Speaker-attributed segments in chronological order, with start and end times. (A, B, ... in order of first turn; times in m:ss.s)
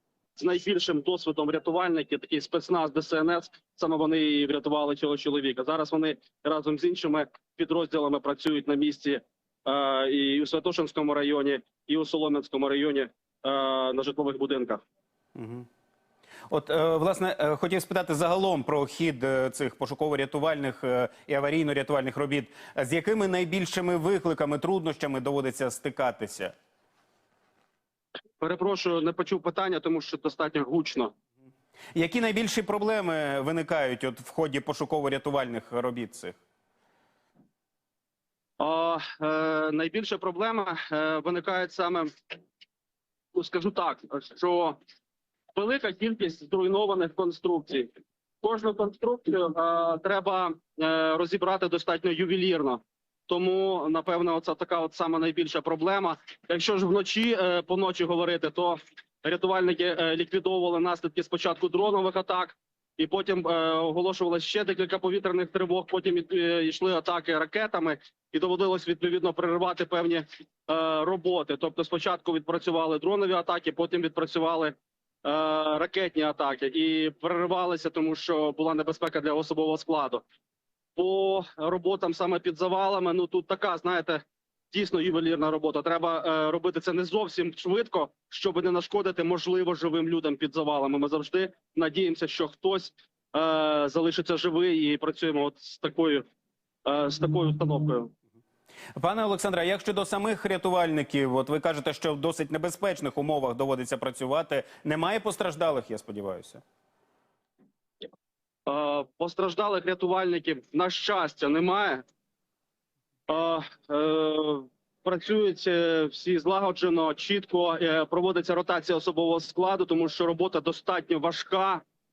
0:00.4-0:14.8 A
0:15.3-0:15.7 B
0:16.5-0:26.5 B
0:28.4-0:31.1 A
0:31.9-0:36.4 B
0:38.6-0:42.1 A
0:43.3-0:44.8 A
0:45.5-0:47.9 A
0:48.4-1:20.2 A
1:21.0-1:36.2 A
1:36.8-1:38.1 A
1:39.0-1:46.6 B
1:48.7-1:52.0 A
1:53.3-2:01.8 A